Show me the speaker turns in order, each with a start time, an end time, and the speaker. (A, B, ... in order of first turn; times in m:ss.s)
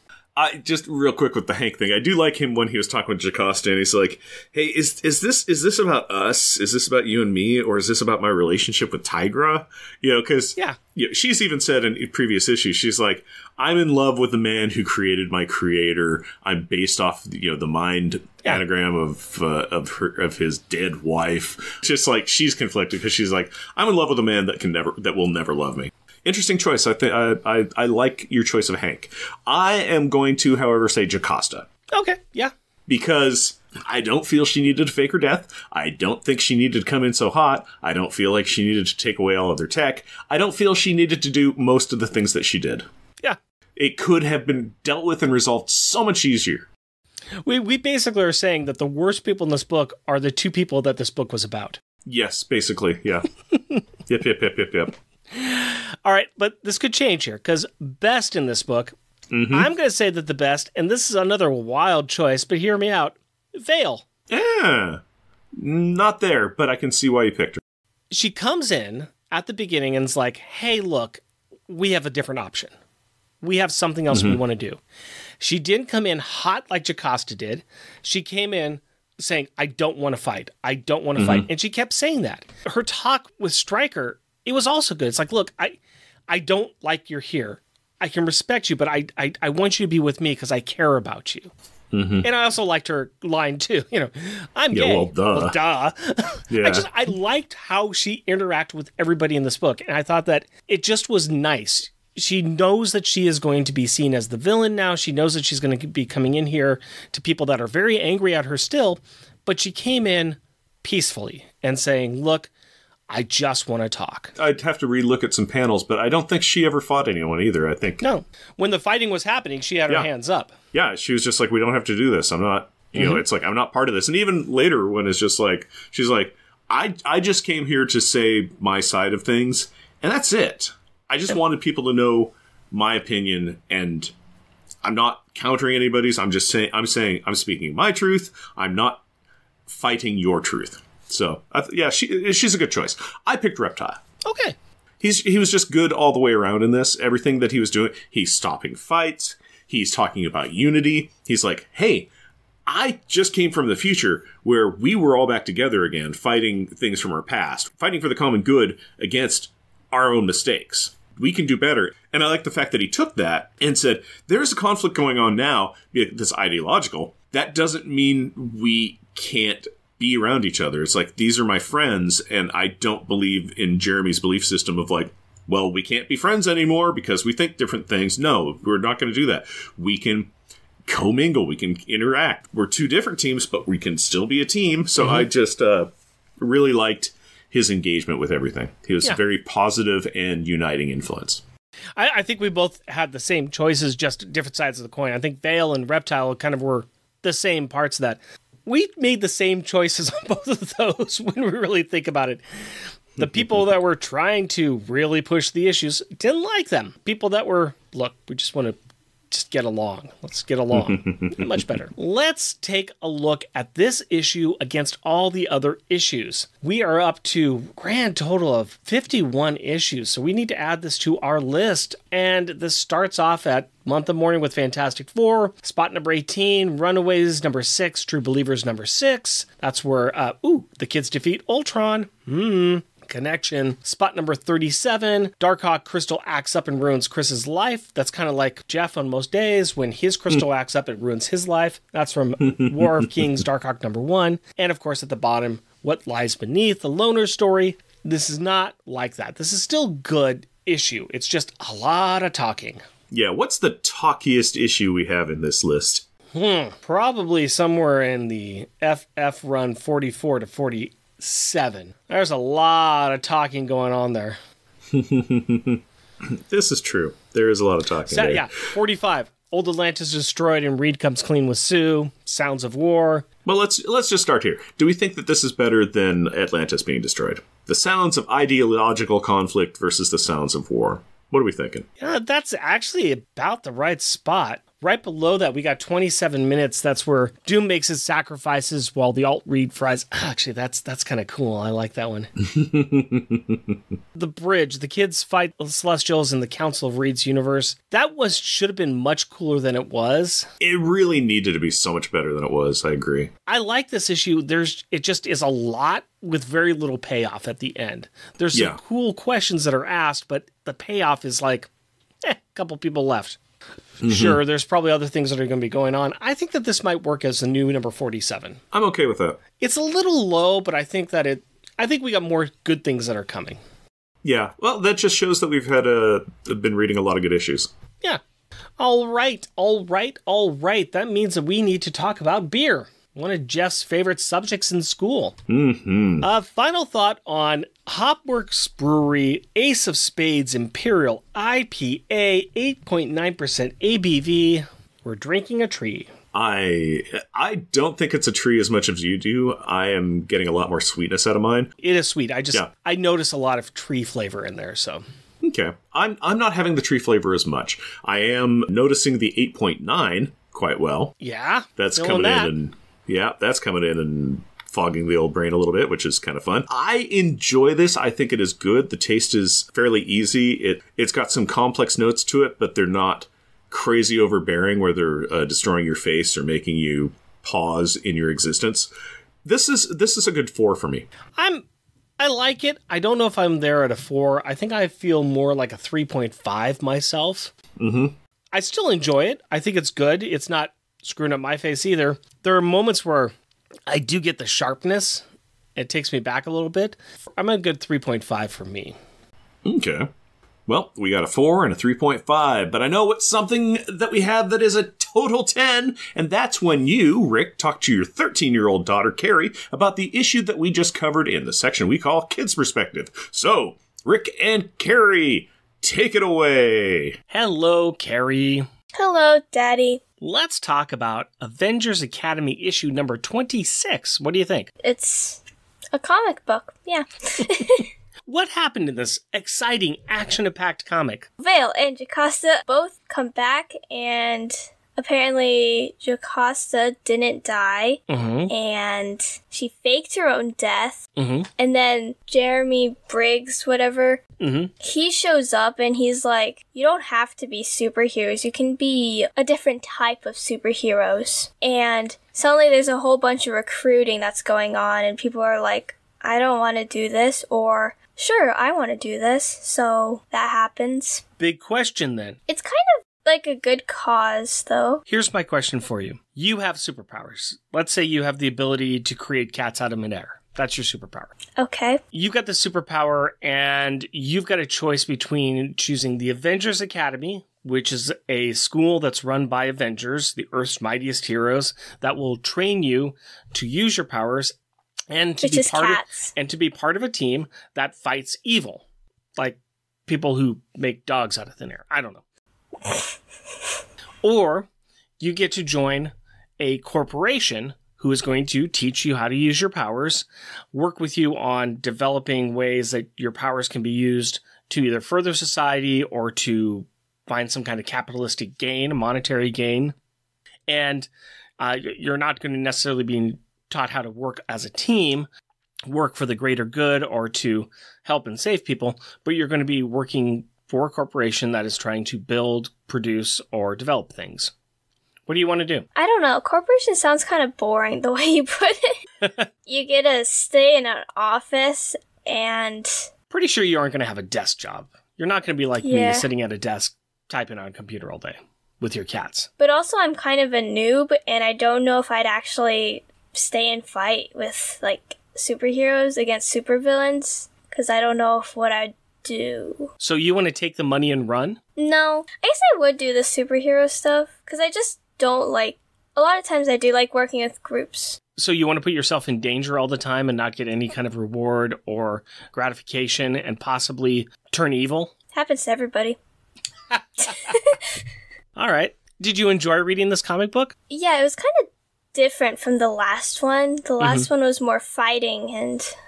0:00.4-0:31.7 A
0:31.9-0:32.5 B
0:32.9-0:42.8 A
0:43.8-0:46.7 A
0:47.4-0:51.8 B
0:52.1-0:53.3 A
0:54.1-0:54.9 A
0:55.3-0:59.0 B
0:59.3-0:59.7 A
0:59.5-1:04.1 B
1:04.3-1:05.0 A
1:05.6-1:07.6 A
1:08.1-1:12.7 B
1:13.4-1:14.8 B
1:14.1-1:14.4 A
1:15.4-1:31.5 B
1:21.2-1:21.5 A
1:31.9-1:32.3 A
1:32.2-1:52.5 B
1:34.7-1:35.6 A
1:36.5-1:36.9 A
1:53.1-1:54.3 B
1:54.4-1:58.0 A
1:58.0-2:00.6 B
2:00.7-2:14.1 A
2:03.0-2:03.2 B
2:14.8-2:19.0 A
2:19.7-2:24.0 A
2:24.2-2:24.6 B
2:25.0-2:32.1 A
2:32.7-3:00.3 A
3:00.9-3:11.4 A
3:05.0-3:05.3 B
3:12.0-3:28.8 B
3:29.3-4:12.8 B
3:30.8-3:31.6 A
4:02.4-4:03.2 A
4:13.1-4:16.1 A
4:16.3-4:24.4 B
4:24.9-4:28.6 A
4:28.1-4:33.3 B
4:33.4-4:41.9 A
4:42.0-4:52.3 B
4:52.4-4:53.8 A
4:54.1-5:00.5 B
5:00.6-5:03.3 A
5:03.5-5:11.7 B
5:08.5-5:08.8 A
5:12.2-5:13.4 B
5:14.0-5:14.4 A
5:14.0-5:18.6 B
5:18.7-5:19.4 A
5:19.6-5:23.6 B
5:24.2-5:27.7 A
5:28.8-5:35.4 B
5:35.5-5:36.3 A
5:36.2-5:46.1 B
5:46.3-5:51.7 A
5:51.8-5:55.0 B
5:55.4-6:01.1 A
6:01.2-6:02.5 B
6:01.8-6:18.9 A
6:19.4-6:21.1 A
6:21.4-6:21.6 B
6:22.2-6:27.5 B
6:27.8-6:28.1 A
6:28.5-6:33.4 B
6:33.9-6:35.2 B
6:35.8-6:39.0 B
6:39.6-6:40.1 A
6:40.7-6:57.2 A
6:57.3-6:58.7 B
6:59.0-7:00.0 C
7:00.2-7:04.7 B
7:04.8-7:05.4 C
7:05.9-7:07.9 C
7:08.3-7:11.3 B
7:11.4-7:24.2 C
7:18.1-7:18.5 B
7:21.2-7:21.5 B
7:24.4-7:24.7 B
7:24.8-7:41.2 C
7:41.4-7:42.4 B
7:42.5-7:45.0 C
7:45.1-7:51.3 B
7:51.6-7:52.0 C
7:52.1-8:04.6 B
8:05.1-8:08.8 B
8:05.4-8:06.3 C
8:09.4-8:12.2 B
8:14.2-8:14.7 B
8:15.2-8:30.0 B
8:30.7-8:35.3 B
8:35.9-8:44.5 B
8:45.3-8:45.9 B
8:46.0-8:49.0 C
8:49.7-8:53.1 C
8:53.3-8:59.5 B
8:55.8-8:56.3 C
8:59.6-9:09.9 C
9:10.0-9:11.6 B
9:11.8-9:18.2 C
9:18.4-9:25.1 B
9:25.3-9:26.2 C
9:27.2-9:28.0 C
9:28.6-9:30.7 B
9:30.9-9:35.9 C
9:34.0-9:34.3 B